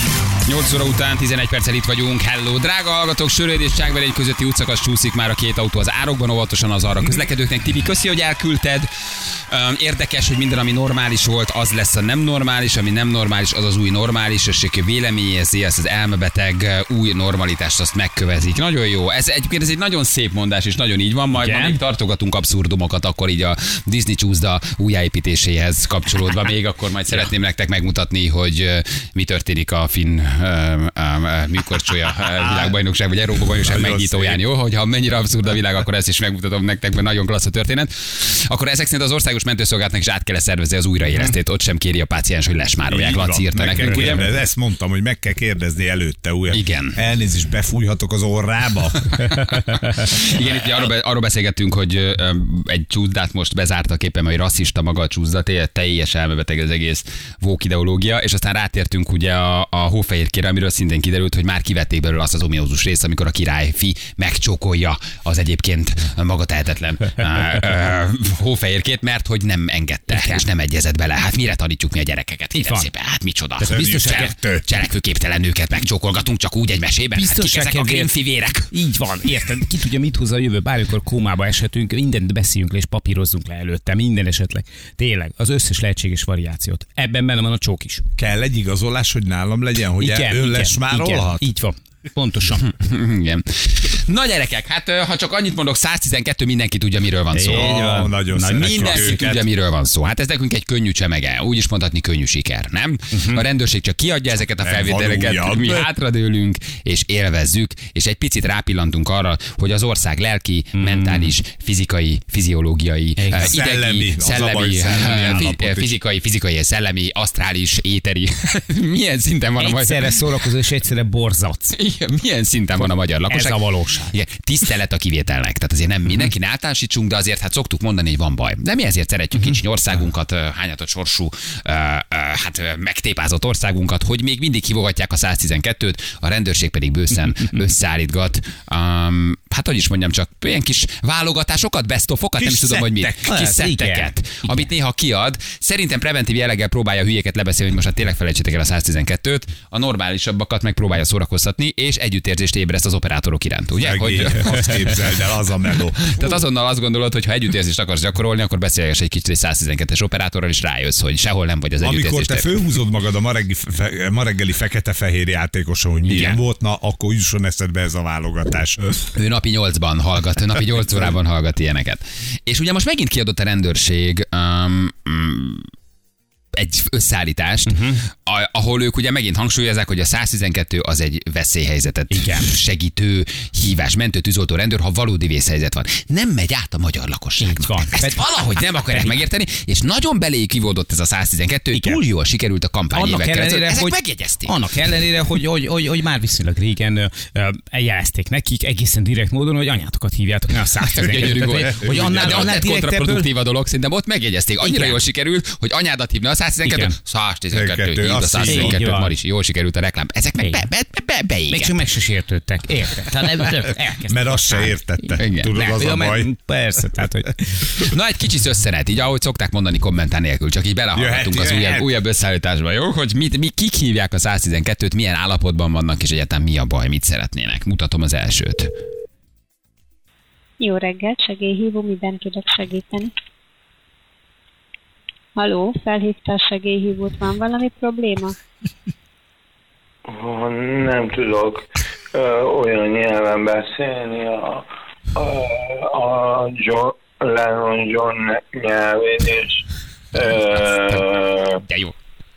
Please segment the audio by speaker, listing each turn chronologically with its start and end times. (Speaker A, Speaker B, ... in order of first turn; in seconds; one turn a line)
Speaker A: 0.4-8.9
Speaker A: 9.5-44.2
Speaker B: 21.4-21.8
Speaker C: 32.4-32.8
Speaker C: 33.6-34.4
Speaker C: 42.9-49.0
Speaker A: 46.5-47.0
Speaker A: 49.1-78.7
Speaker B: 70.1-70.5
Speaker B: 72.5-72.9
Speaker B: 73.6-74.3
Speaker C: 73.7-74.6
Speaker B: 77.2-78.1
Speaker B: 78.7-88.0
Speaker C: 88.2-91.5
Speaker B: 90.0-92.6
Speaker A: 92.5-97.9
Speaker B: 97.3-99.2
Speaker C: 97.5-99.5
Speaker A: 98.6-120.2
Speaker B: 103.1-103.4
Speaker C: 104.6-105.8
Speaker B: 110.8-111.3
Speaker B: 113.2-113.5
Speaker C: 113.4-115.9
Speaker B: 119.6-121.8
Speaker A: 121.7-162.5
Speaker B: 122.8-124.1
Speaker B: 129.3-129.6
Speaker C: 142.4-142.7
Speaker B: 142.9-144.7
Speaker C: 153.8-156.4
Speaker C: 161.8-168.8
Speaker A: 166.0-166.4
Speaker A: 169.2-175.6
Speaker A: 176.6-194.5
Speaker B: 177.7-178.0
Speaker B: 182.1-182.5
Speaker B: 187.4-189.2
Speaker B: 191.7-192.0
Speaker B: 192.9-203.3
Speaker A: 201.0-211.8
Speaker C: 202.1-202.5
Speaker B: 204.6-205.0
Speaker B: 206.6-206.9
Speaker C: 207.5-208.8
Speaker B: 208.4-209.1
Speaker B: 210.4-210.6
Speaker B: 211.5-217.4
Speaker C: 214.1-216.3
Speaker A: 215.2-215.5
Speaker A: 217.8-228.7
Speaker C: 220.9-221.9
Speaker D: 230.6-233.1
Speaker D: 235.3-238.3
Speaker E: 240.1-244.6
Speaker E: 245.2-249.6
Speaker E: 250.1-251.5
Speaker A: 250.5-251.1
Speaker A: 251.6-251.9